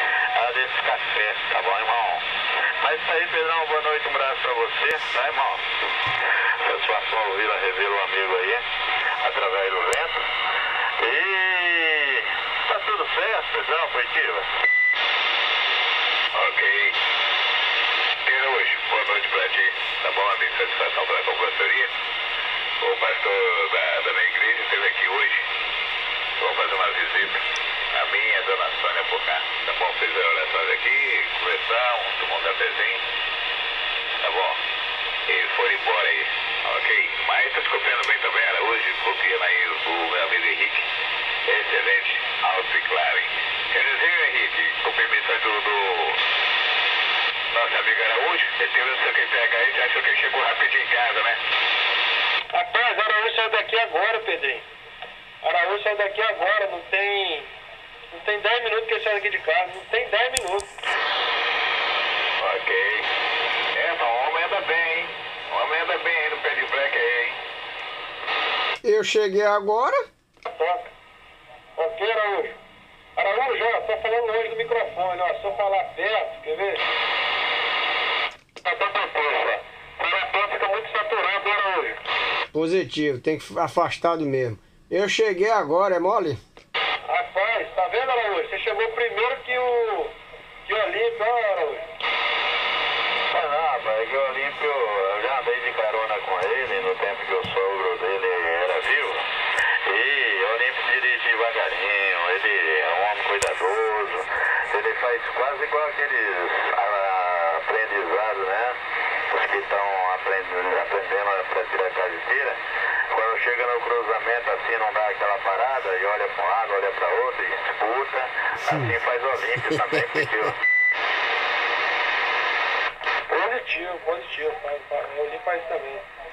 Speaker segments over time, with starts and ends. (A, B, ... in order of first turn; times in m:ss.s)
0:00.4-0:02.2 A
0:02.8-0:05.7 A
0:06.6-0:08.6 A
0:09.2-0:10.2 A
0:11.0-0:14.5 A
0:16.4-0:17.0 B
0:18.2-0:21.9 B
0:22.8-0:25.5 B
0:26.4-0:27.4 B
0:27.9-0:33.0 B
0:34.2-0:34.6 B
0:35.3-0:40.9 B
0:41.5-0:46.2 B
0:47.5-0:51.4 B
0:52.5-0:54.6 C
0:55.4-0:57.5 C
0:58.1-1:00.7 C
1:02.4-1:03.1 B
1:03.7-1:07.4 B
1:08.8-1:10.0 D
1:10.5-1:10.9 C
1:11.8-1:12.6 C
1:13.2-1:16.9 C
1:18.6-1:22.0 C
1:22.5-1:26.4 D
1:27.1-1:30.2 C
1:30.7-1:31.8 C
1:33.3-1:39.3 A
1:39.8-1:48.8 A
1:49.3-2:00.6 A
2:03.3-2:06.1 C